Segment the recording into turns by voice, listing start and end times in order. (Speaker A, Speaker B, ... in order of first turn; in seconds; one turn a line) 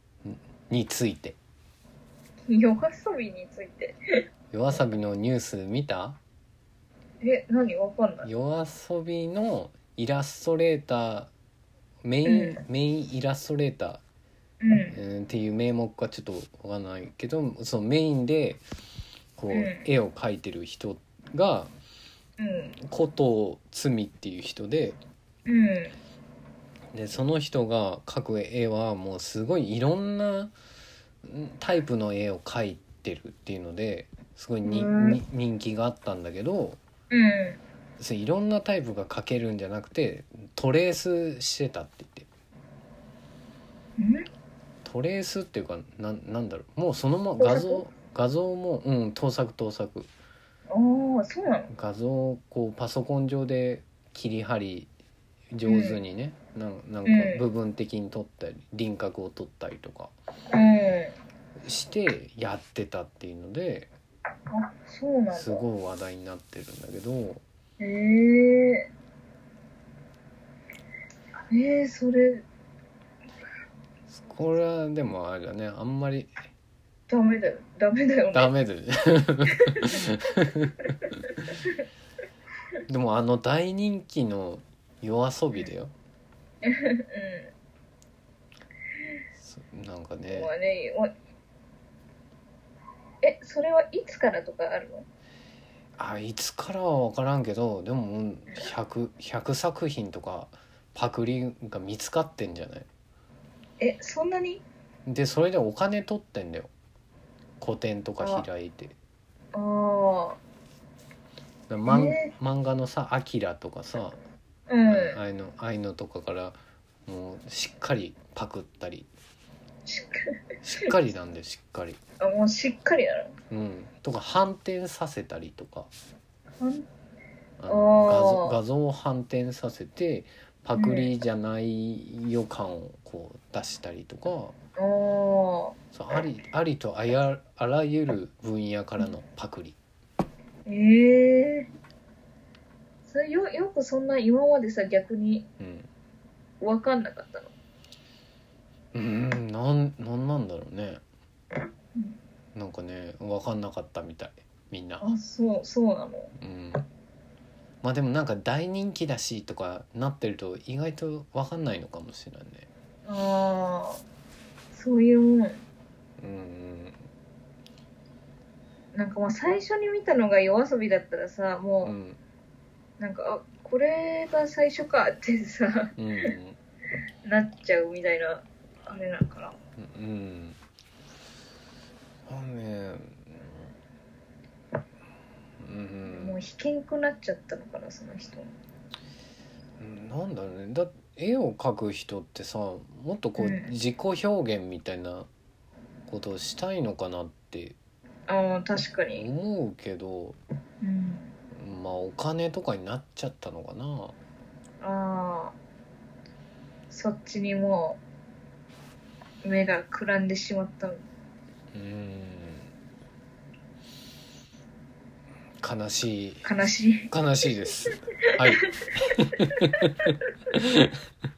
Speaker A: 0.2-1.4
Speaker B: 2.5-4.0
Speaker A: 4.5-6.2
Speaker B: 7.2-8.3
Speaker A: 8.2-11.3
Speaker A: 12.0-14.0
Speaker B: 12.2-12.6
Speaker B: 14.6-15.0
Speaker A: 14.9-18.6
Speaker A: 19.4-21.7
Speaker B: 19.5-19.9
Speaker B: 22.4-22.7
Speaker A: 22.8-25.0
Speaker B: 25.4-25.9
Speaker A: 26.9-30.5
Speaker A: 31.2-36.8
Speaker B: 34.6-35.2
Speaker B: 37.1-37.6
Speaker A: 38.0-42.3
Speaker B: 44.0-44.3
Speaker A: 44.8-50.1
Speaker B: 47.4-47.8
Speaker B: 50.7-51.7
Speaker A: 51.7-54.9
Speaker A: 55.5-60.1
Speaker B: 55.6-56.0
Speaker B: 57.0-57.4
Speaker B: 60.5-61.1
Speaker A: 61.6-63.9
Speaker B: 64.5-65.6
Speaker A: 65.3-67.4
Speaker B: 67.8-68.9
Speaker B: 71.5-72.4
Speaker A: 74.1-76.3
Speaker B: 77.1-78.5
Speaker A: 78.3-80.7
Speaker A: 82.9-85.9
Speaker B: 86.6-87.5
Speaker A: 89.4-90.5
Speaker B: 90.3-91.1
Speaker B: 93.2-95.0
Speaker A: 96.0-102.9
Speaker B: 103.8-104.6
Speaker A: 105.0-106.7
Speaker A: 107.6-108.9
Speaker B: 108.2-108.5
Speaker B: 109.5-110.4
Speaker A: 111.7-114.2
Speaker B: 111.8-112.3
Speaker B: 114.7-115.2
Speaker A: 114.9-119.1
Speaker B: 119.8-120.3
Speaker A: 120.6-122.0
Speaker B: 122.2-123.3
Speaker A: 123.5-125.9
Speaker B: 126.6-126.9
Speaker A: 127.6-134.5
Speaker B: 127.7-128.6
Speaker B: 130.8-131.1
Speaker B: 134.8-135.8
Speaker A: 135.9-139.8
Speaker B: 140.7-141.7
Speaker B: 143.1-145.4
Speaker A: 145.6-145.9
Speaker B: 146.6-147.5
Speaker A: 148.9-151.0
Speaker A: 152.5-155.1
Speaker B: 155.0-156.3
Speaker A: 156.4-156.8
Speaker A: 157.8-162.7
Speaker B: 163.1-164.0
Speaker B: 164.7-165.6
Speaker A: 166.2-167.0
Speaker B: 168.9-171.9
Speaker A: 171.8-172.2
Speaker B: 173.0-175.9
Speaker A: 176.0-176.6
Speaker B: 177.2-179.6
Speaker A: 179.8-180.6
Speaker A: 182.3-183.7
Speaker A: 185.6-186.4
Speaker B: 186.1-188.5
Speaker A: 189.8-195.3
Speaker B: 193.4-193.7
Speaker A: 196.1-197.8
Speaker B: 198.3-199.2
Speaker A: 199.1-200.4
Speaker B: 200.8-201.3
Speaker A: 201.5-204.2
Speaker B: 204.8-205.6
Speaker B: 206.9-208.0
Speaker B: 209.4-211.0
Speaker A: 211.7-212.7
Speaker A: 215.6-216.5
Speaker B: 216.4-217.1
Speaker A: 217.1-220.9